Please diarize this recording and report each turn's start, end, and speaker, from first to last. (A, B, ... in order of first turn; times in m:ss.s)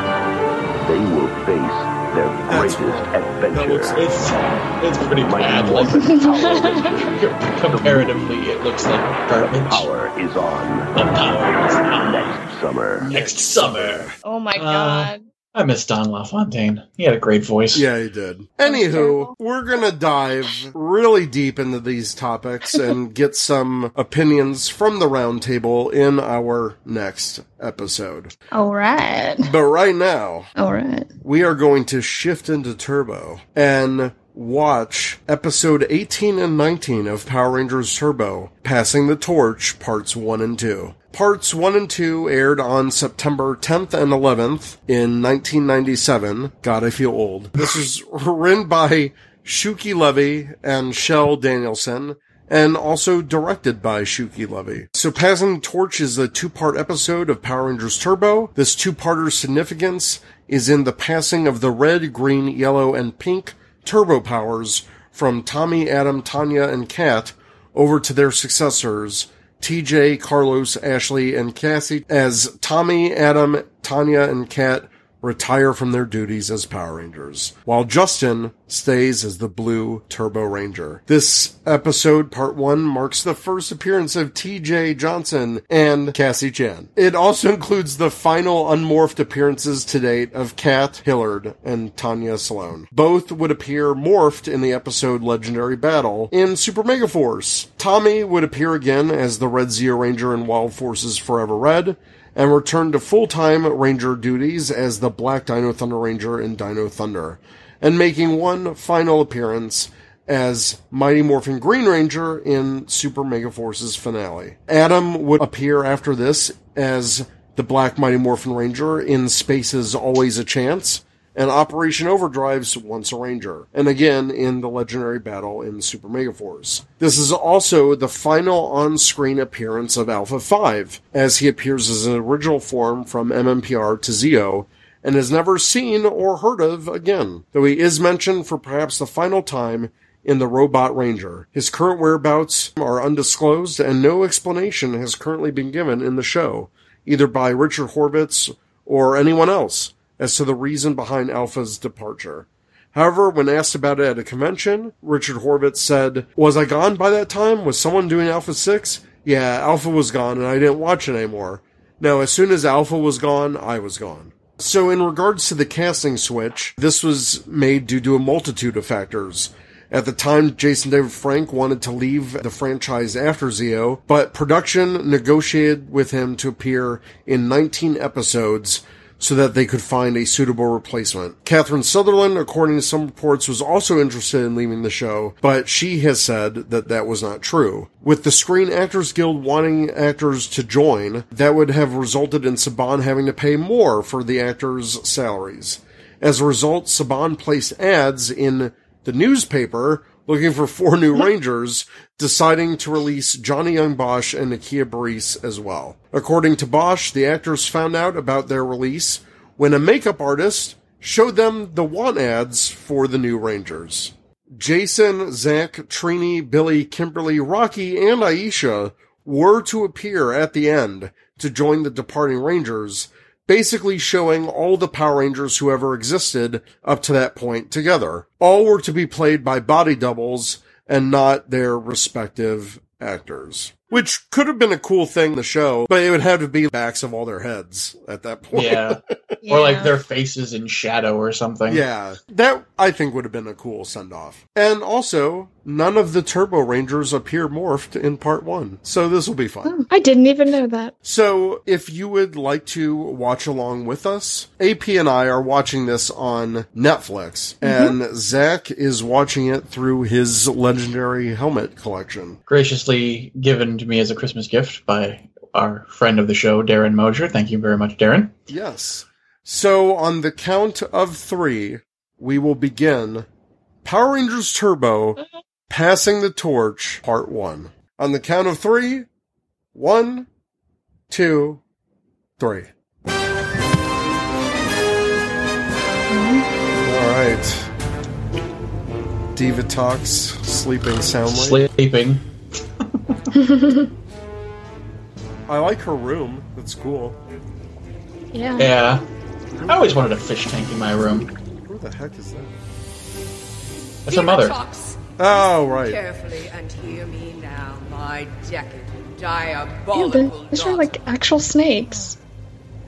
0:00.8-0:04.0 A
0:02.5-0:04.0 B
0:04.0-0:06.2 C
0:05.1-0:08.3 A
0:06.0-0:06.9 D
0:07.1-0:09.9 C
0:09.3-0:14.1 A
0:11.0-0:12.3 C
0:13.0-0:17.8 C
0:14.2-0:15.2 D
0:17.7-0:28.3 B
0:18.6-0:19.3 D
0:28.5-0:29.5 D
0:29.4-0:30.5 B
0:30.6-0:31.1 D
0:31.2-3:59.0 B
3:58.5-4:01.8 C
3:59.4-3:59.9 D
4:01.7-4:09.7 B
4:09.7-4:10.9 D
4:11.0-4:22.4 B
4:17.6-4:18.0 D
4:22.5-4:28.3 C
4:28.5-4:33.3 B
4:33.8-4:39.1 B
4:39.7-4:40.3 B
4:41.1-4:41.6 B
4:42.4-4:42.7 B
4:46.1-4:46.5 D
4:46.8-4:47.7 B
4:49.3-4:51.6 B
4:51.3-4:52.2 C
4:53.4-4:53.9 D
4:55.5-4:57.2 B
4:58.3-4:58.7 D
4:58.6-4:59.0 C
4:59.7-4:59.9 B
4:59.7-5:01.3 C
5:01.7-5:02.5 B
5:04.1-5:04.6 C
5:04.1-5:10.9 E
5:05.2-5:06.0 B
5:09.9-5:12.2 D